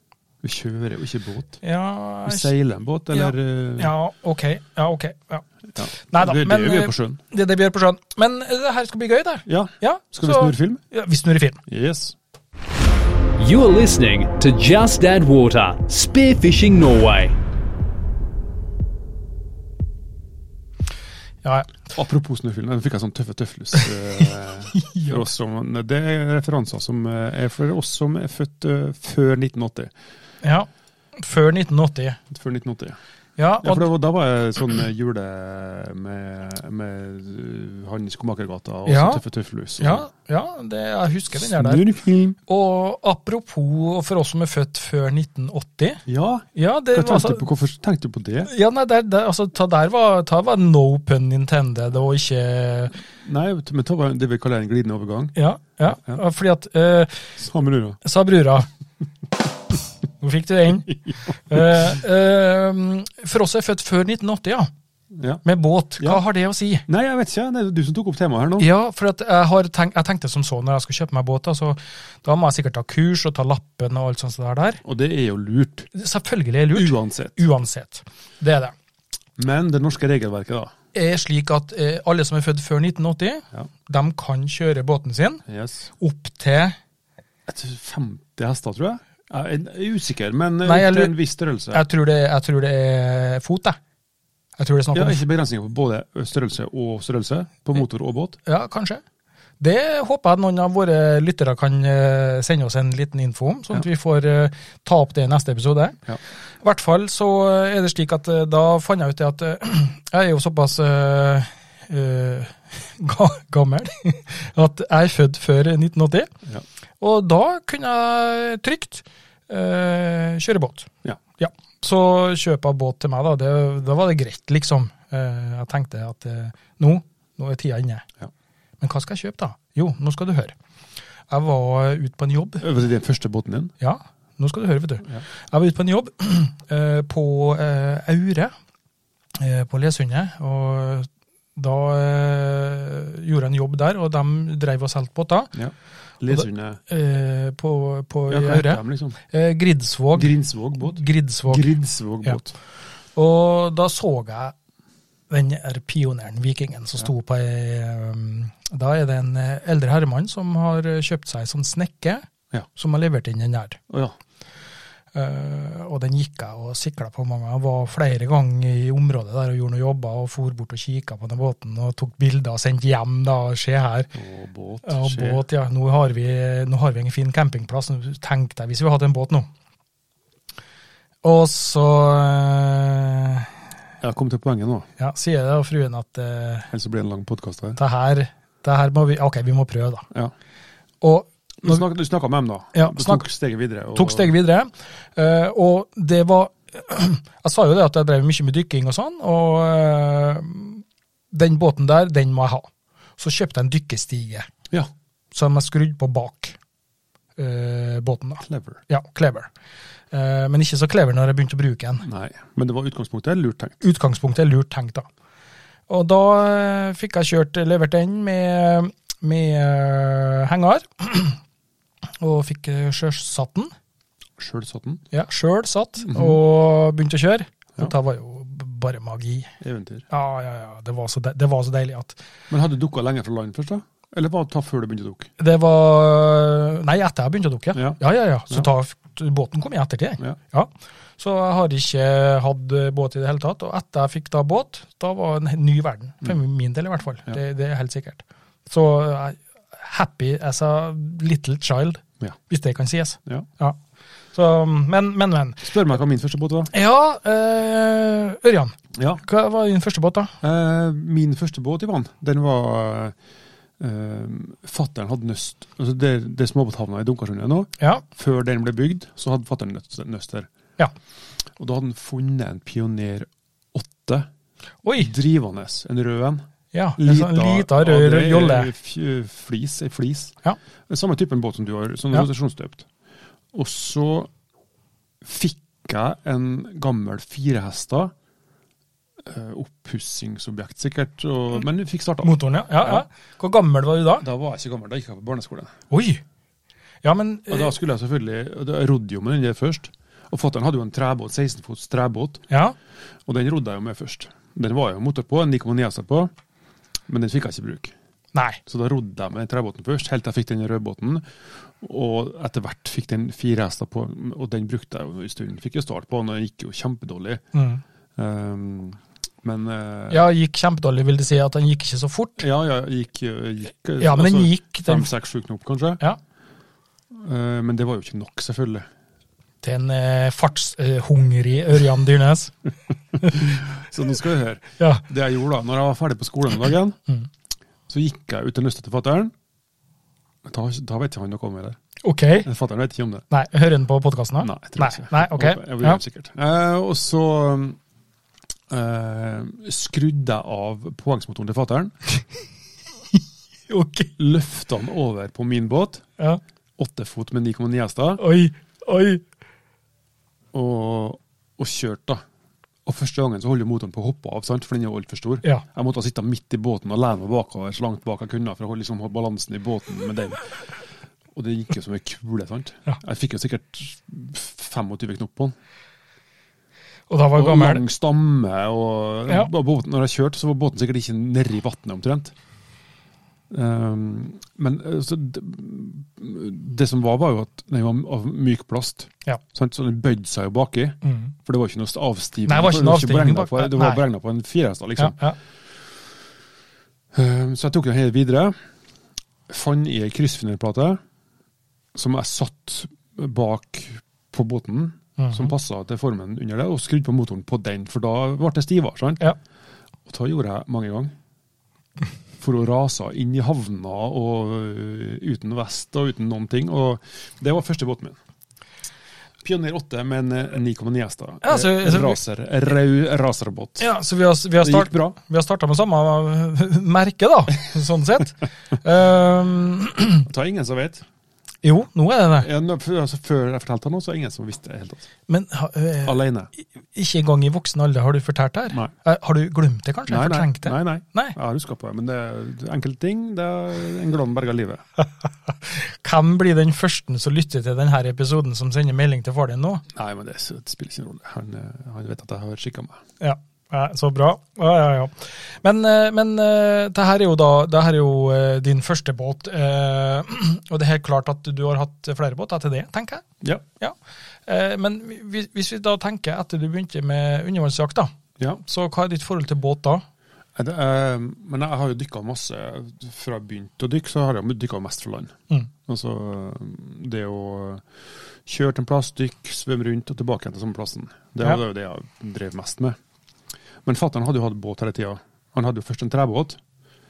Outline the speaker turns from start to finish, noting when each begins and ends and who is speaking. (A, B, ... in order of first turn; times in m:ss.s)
0:00.4-0:01.6 A
0:01.6-0:02.5 B
0:02.2-0:03.9 A
0:03.1-0:11.6 B
0:05.8-0:07.2 A
0:09.4-0:10.8 A
0:11.7-0:12.1 A
0:13.4-0:17.4 C
0:21.4-0:21.7 B
0:21.9-0:29.9 A
0:24.7-0:25.2 B
0:30.4-0:32.2 B
0:32.3-0:33.0 A
0:33.4-0:33.9 B
0:33.6-0:40.1 A
0:38.8-0:39.2 B
0:39.8-0:41.8 B
0:41.3-0:42.4 A
0:42.4-0:46.0 B
0:46.0-0:48.5 A
0:46.5-0:47.4 B
0:48.4-0:53.0 B
0:53.2-0:55.3 A
0:55.3-0:57.3 B
0:55.9-0:56.2 A
0:57.4-0:58.0 A
0:58.0-0:58.7 B
1:00.2-1:04.7 B
1:05.1-1:05.4 A
1:05.4-1:06.8 B
1:06.8-1:08.7 A
1:08.6-1:14.8 B
1:14.8-1:15.9 A
1:15.9-1:18.7 B
1:16.7-1:17.4 A
1:19.4-1:20.7 A
1:20.9-1:25.4 B
1:25.5-1:25.9 A
1:26.0-1:26.8 B
1:27.5-1:31.8 A
1:30.6-1:31.1 B
1:31.7-1:33.8 B
1:34.6-1:35.2 B
1:34.9-1:38.4 A
1:38.4-1:39.0 B
1:39.6-1:46.0 B
1:46.6-1:56.3 B
1:57.0-2:08.0 B
2:08.8-2:10.5 B
2:11.3-2:12.6 B
2:12.6-2:13.7 A
2:13.8-2:18.5 B
2:19.4-2:25.5 B
2:25.5-2:26.8 A
2:26.3-2:31.6 B
2:28.3-2:29.2 A
2:30.1-2:32.5 A
2:33.2-2:34.5 B
2:35.3-2:43.8 B
2:43.9-2:44.1 A
2:45.1-2:54.1 B
2:54.1-2:55.4 A
2:54.8-2:59.5 B
3:01.2-3:03.5 B
3:04.0-3:04.9 A
3:05.0-3:06.7 B
3:06.7-3:07.8 A
3:07.8-3:10.1 B
3:11.0-3:11.8 B
3:11.6-3:14.3 A
3:12.7-3:13.2 B
3:13.9-3:24.5 B
3:25.3-3:26.6 B
3:27.4-3:29.5 B
3:28.4-3:28.8 A
3:30.1-3:32.0 B
3:32.0-3:33.8 A
3:33.8-3:35.0 B
3:35.9-3:41.4 B
3:42.2-3:43.7 B
3:44.4-3:45.0 A
3:45.1-3:49.5 B
3:46.1-3:46.4 A
3:49.6-3:50.0 A
3:50.1-3:52.2 B
3:52.5-3:55.3 A
3:55.4-4:13.8 B
3:57.7-3:58.7 A
4:14.3-4:15.7 B
4:15.6-4:16.7 A
4:16.7-4:20.3 B
4:19.0-4:19.2 A
4:20.4-4:23.1 A
4:23.8-4:30.5 A
4:31.6-4:34.3 A
4:34.8-4:35.1 B
4:35.0-4:36.4 A
4:36.7-4:38.7 B
4:37.0-4:40.4 A
4:40.9-4:42.8 A
4:43.5-4:44.3 A
4:45.2-4:48.1 A
4:49.2-4:53.0 A
4:52.2-4:54.2 B
4:54.2-4:55.7 A
4:55.9-4:56.2 B
4:57.0-4:57.7 B
4:57.5-5:02.4 A
5:02.5-5:02.7 B
5:03.2-5:06.3 A
5:07.1-5:07.9 A
5:08.3-5:08.6 B
5:08.7-5:11.2 A
5:11.8-5:17.4 A
5:17.5-5:17.8 B
5:18.2-5:20.3 A
5:20.1-5:22.4 B
5:22.4-5:26.0 A
5:24.0-5:25.1 B
5:27.1-5:28.9 A
5:29.6-5:32.5 B
5:33.2-5:33.5 B
5:33.3-5:37.0 A
5:34.8-5:35.0 B
5:37.9-5:39.3 A
5:40.4-5:41.8 A
5:42.0-5:42.5 B
5:42.4-5:43.2 A
5:43.3-5:46.0 B
5:44.4-5:47.8 A
5:48.7-5:52.0 A
5:53.7-5:54.1 B
5:54.2-5:56.0 A
5:56.8-5:58.2 A
5:58.2-5:59.2 B
6:00.5-6:02.2 A
6:02.8-6:10.4 A
6:11.3-6:15.5 A
6:17.1-6:17.9 B
6:17.4-6:22.3 A
6:23.5-6:35.2 A
6:31.0-6:31.3 B
6:32.4-6:34.0 B
6:35.0-6:35.4 B
6:37.1-6:38.5 A
6:39.5-6:41.0 A
6:41.9-6:49.3 A
6:45.2-6:45.5 B
6:50.0-6:51.1 A
6:52.4-6:58.2 A
6:59.4-7:03.9 A
7:01.4-7:02.2 B
7:03.8-7:10.3 B
7:04.6-7:05.2 A
7:10.2-7:11.0 A
7:11.6-7:12.5 B
7:12.4-7:15.1 A
7:15.3-7:16.2 B
7:16.0-7:16.5 A
7:16.9-7:21.4 B
7:20.1-7:24.8 A
7:25.5-7:29.8 B
7:29.9-7:33.0 A
7:33.2-7:43.2 B
7:44.5-7:50.0 B
7:50.6-7:55.3 A
7:55.9-7:57.8 A
7:58.4-8:03.0 A
8:03.8-8:06.6 A